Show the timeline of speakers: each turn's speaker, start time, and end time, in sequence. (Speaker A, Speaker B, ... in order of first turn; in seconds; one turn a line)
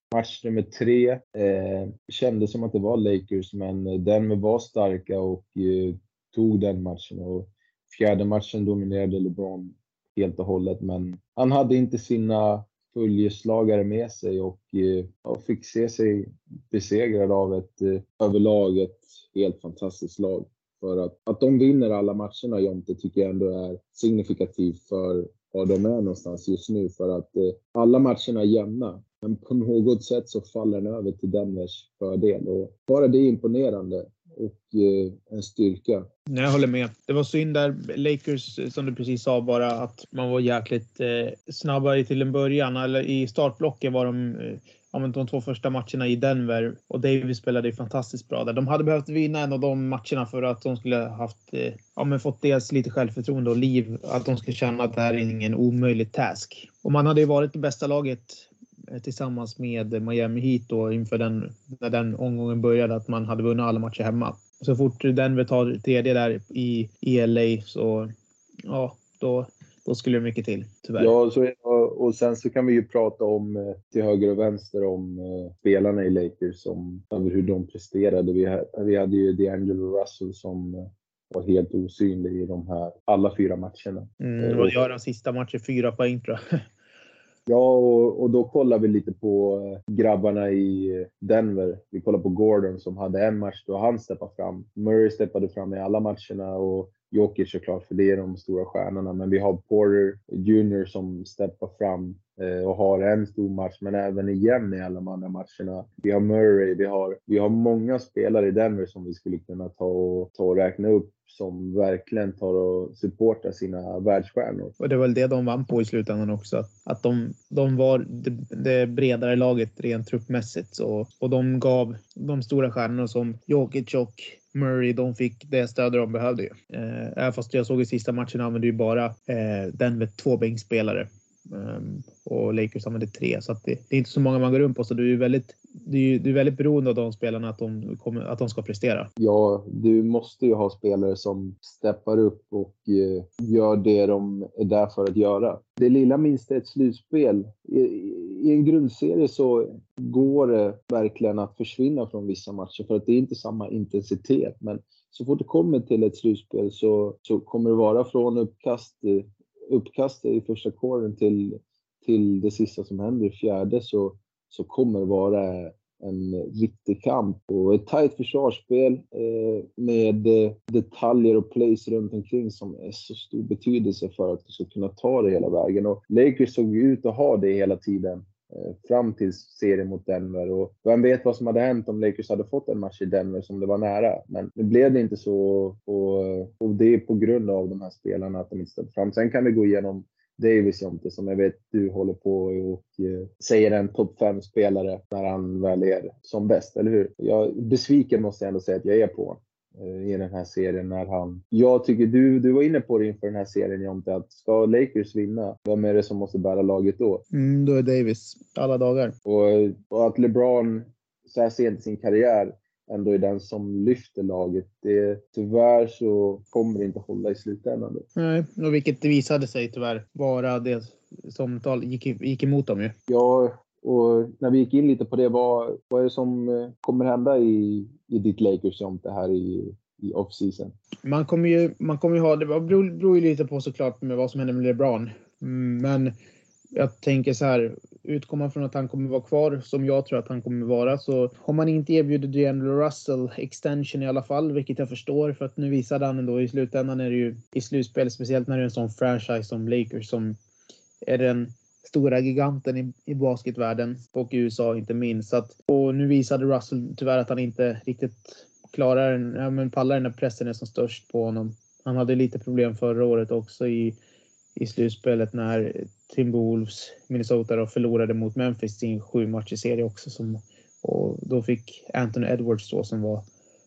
Speaker A: 0.1-36.1
Speaker B: 36.3-68.1
Speaker B: 68.7-71.1
Speaker A: 71.0-84.7
Speaker B: 84.2-86.4
Speaker A: 87.5-114.7
Speaker B: 114.8-139.1
Speaker A: 139.2-207.2
Speaker B: 207.3-209.1
Speaker A: 209.2-218.1
Speaker B: 218.2-222.9
Speaker A: 223.1-230.8
Speaker B: 231.0-236.1
Speaker B: 236.8-250.4
Speaker B: 251.1-264.0
Speaker B: 264.6-273.2